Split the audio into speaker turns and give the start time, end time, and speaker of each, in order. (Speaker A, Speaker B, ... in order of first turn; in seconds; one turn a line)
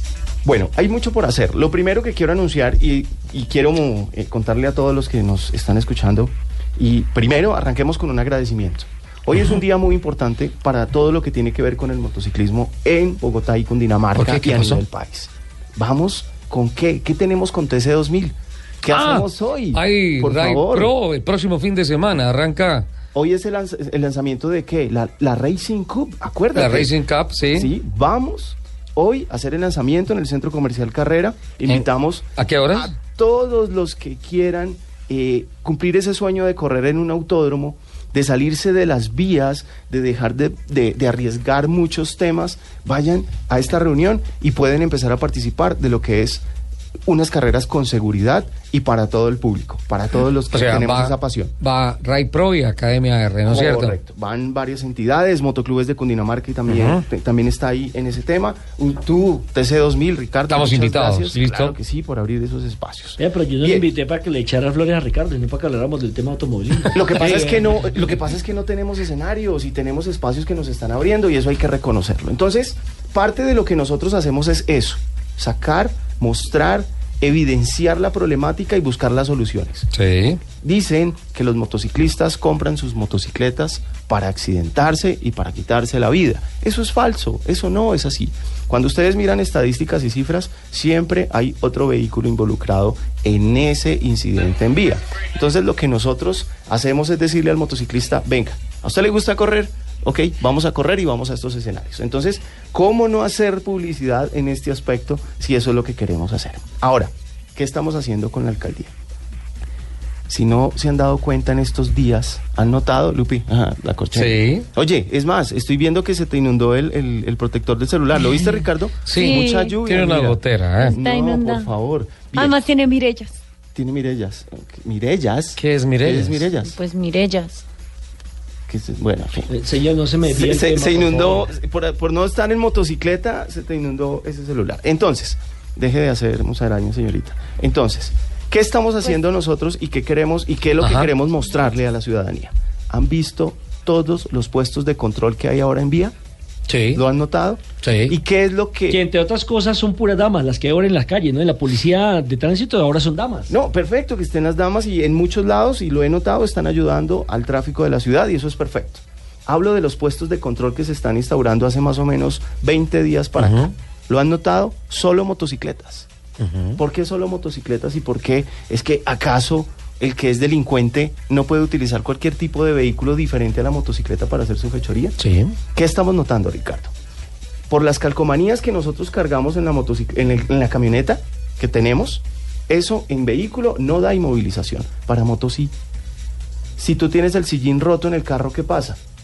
Speaker A: 0.5-20.9
Speaker B: 14.2-14.8
Speaker B: 18.9-22.9
Speaker A: 23.1-26.9
Speaker B: 26.6-27.7
Speaker A: 27.6-46.4
Speaker B: 32.4-32.9
Speaker A: 47.1-51.5
Speaker B: 50.5-54.0
Speaker A: 53.5-63.9
Speaker B: 56.7-57.0
Speaker B: 60.5-61.8
Speaker C: 63.2-67.9
Speaker A: 66.9-79.9
Speaker B: 79.9-80.4
Speaker A: 80.5-108.9
Speaker A: 110.3-122.7
Speaker B: 114.1-114.7
Speaker B: 119.0-121.0
Speaker D: 119.2-119.8
Speaker D: 120.8-121.7
Speaker D: 122.3-123.3
Speaker A: 123.7-126.8
Speaker B: 125.6-126.5
Speaker D: 126.6-127.6
Speaker A: 128.7-129.5
Speaker C: 129.5-131.5
Speaker A: 130.2-146.1
Speaker B: 140.8-141.1
Speaker B: 146.7-147.0
Speaker A: 146.9-149.0
Speaker B: 147.8-148.1
Speaker C: 148.9-153.5
Speaker A: 153.5-166.1
Speaker B: 163.4-163.7
Speaker B: 166.4-166.8
Speaker A: 166.8-175.1
Speaker B: 175.2-175.6
Speaker A: 175.7-176.9
Speaker A: 177.7-185.7
Speaker A: 186.8-189.0